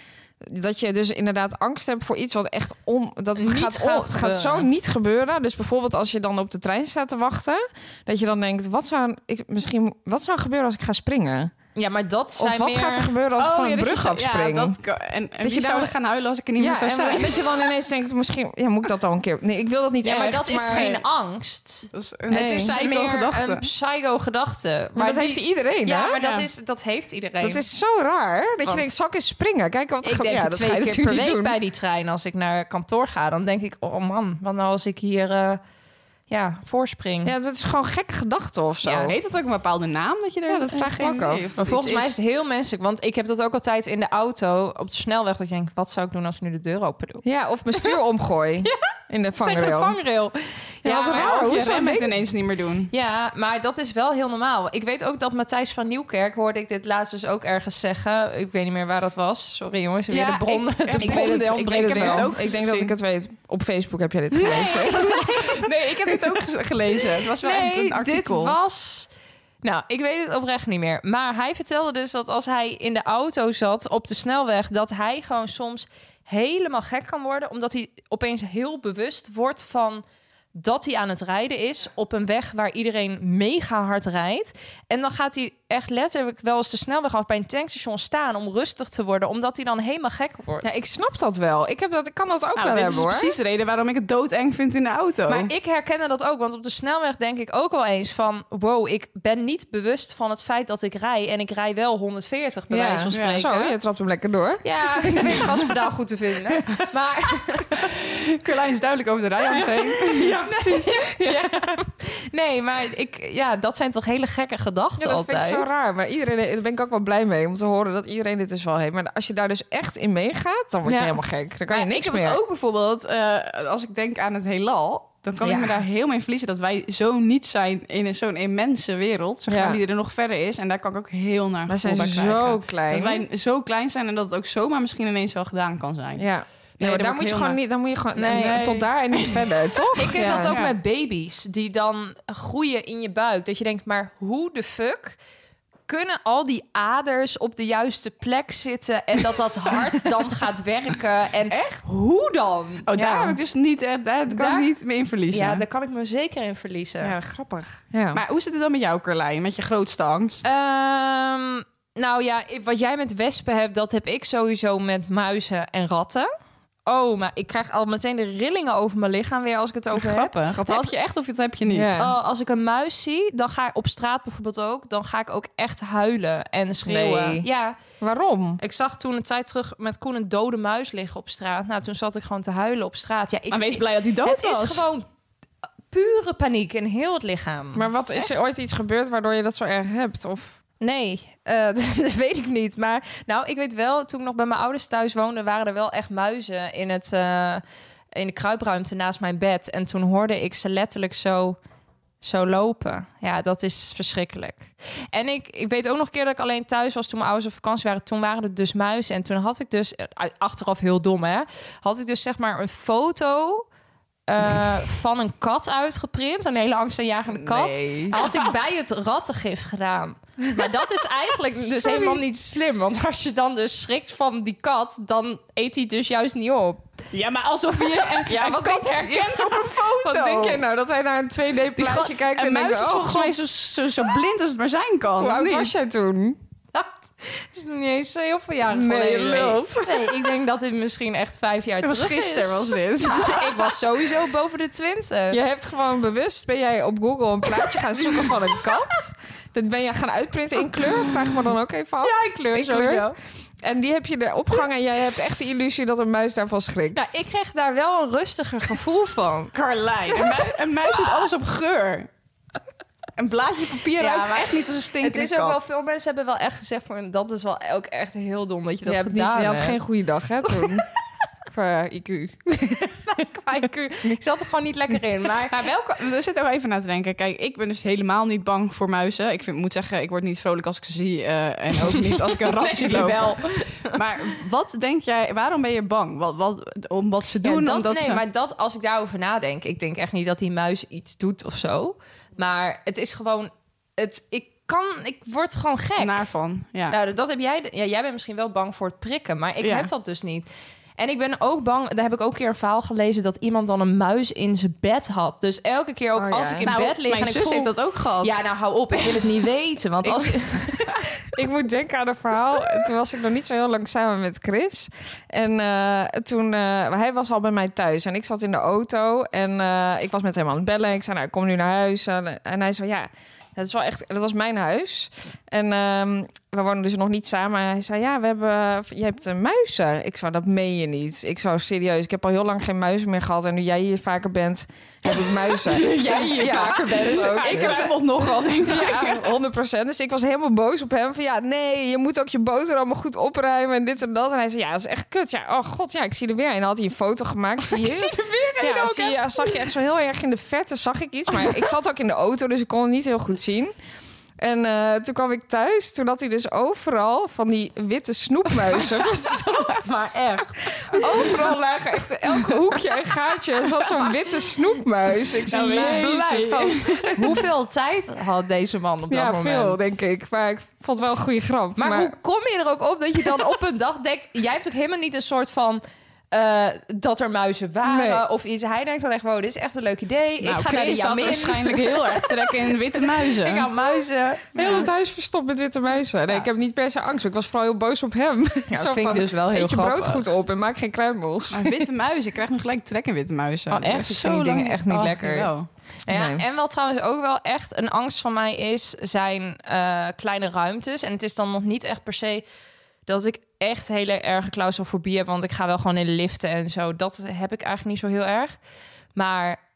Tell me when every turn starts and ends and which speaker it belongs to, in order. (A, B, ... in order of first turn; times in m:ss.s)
0:00.4-0:11.5 A
0:03.4-0:04.7 B
0:11.7-0:13.1 B
0:12.4-0:14.8 A
0:13.4-0:17.6 C
0:15.4-0:15.9 A
0:16.6-0:20.9 A
0:20.0-0:27.6 B
0:20.7-0:21.0 C
0:21.9-0:23.7 C
0:22.3-0:22.7 A
0:25.0-0:26.4 A
0:27.4-0:31.6 A
0:30.0-0:35.6 B
0:36.3-0:37.3 B
0:37.2-0:39.2 A
0:38.8-0:42.2 C
0:40.5-0:41.5 A
0:41.6-0:47.2 B
0:47.2-0:50.0 A
0:49.4-0:51.4 B
0:50.8-0:52.2 A
0:51.1-0:52.9 C
0:52.9-1:02.3 B
1:00.1-1:02.9 C
1:01.0-1:05.4 A
1:04.3-1:05.6 B
1:05.1-1:08.5 C
1:07.4-1:09.1 B
1:09.6-1:20.0 B
1:20.5-1:30.8 B
1:30.6-1:33.3 A
1:32.6-1:35.5 C
1:35.3-1:43.8 B
1:42.7-1:45.7 A
1:43.1-1:43.5 C
1:44.6-1:47.7 B
1:47.8-1:50.4 C
1:49.5-1:51.8 A
1:50.5-1:55.7 B
1:55.0-2:02.4 A
2:00.8-2:01.2 B
2:01.7-2:16.3 C
2:09.5-2:09.8 A
2:11.7-2:13.2 A
2:16.2-2:20.6 A
2:16.8-2:17.6 C
2:18.2-2:18.6 B
2:18.2-2:20.7 C
2:20.0-2:25.2 B
2:25.9-2:32.8 B
2:31.5-2:31.8 C
2:32.9-2:35.6 C
2:33.0-2:33.4 A
2:34.3-2:34.7 B
2:35.3-2:37.2 B
2:37.0-2:38.2 A
2:38.1-2:40.4 C
2:40.4-2:46.3 B
2:46.8-2:50.9 B
2:49.9-2:51.9 C
2:51.7-2:52.1 A
2:52.0-2:57.8 B
2:56.8-2:57.5 A
2:58.0-2:58.6 A
2:58.6-3:05.1 B
3:03.5-3:04.8 C
3:05.9-3:07.9 B
3:07.7-3:10.6 A
3:10.8-3:21.6 B
3:22.2-3:33.6 B
3:34.3-3:46.9 B
3:37.6-3:38.5 C
3:41.6-3:42.2 A
3:47.1-3:50.6 C
3:48.2-3:53.5 A
3:51.8-3:55.8 C
3:55.2-3:56.4 A
3:56.7-4:05.4 B
3:58.7-4:00.3 A
4:01.8-4:03.7 C
4:05.3-4:13.1 A
4:12.0-4:13.2 B
4:13.6-4:17.1 A
4:16.9-4:19.5 B
4:19.5-4:22.1 C
4:23.2-4:25.6 C
4:24.0-4:29.8 B
4:28.8-4:30.8 A
4:31.5-4:33.0 A
4:33.1-4:35.6 B
4:33.6-4:34.2 A
4:35.5-4:48.2 C
4:42.3-4:44.0 B
4:47.4-4:56.2 B
4:56.0-4:57.0 C
4:56.9-5:00.5 B
4:59.6-4:59.9 C
5:01.0-5:10.8 B
5:06.1-5:06.7 A
5:06.6-5:08.4 C
5:11.3-5:53.7 A
5:35.6-5:39.3 C
5:35.8-5:37.9 B
5:47.6-5:49.6 B
5:54.4-6:07.4 A
5:59.8-6:01.4 B
6:05.5-6:07.2 C
6:05.5-6:06.2 B
6:07.1-6:10.0 B
6:09.1-6:12.1 A
6:11.8-6:22.2 B
6:17.8-6:18.2 A
6:20.4-6:23.7 C
6:23.4-6:24.8 B
6:24.5-6:31.8 A
6:24.6-6:24.9 C
6:28.7-6:30.2 B
6:31.5-6:35.7 C
6:33.7-6:35.5 B
6:36.0-6:42.4 B
6:36.1-6:36.4 A
6:43.1-6:48.5 B
6:49.1-6:49.6 B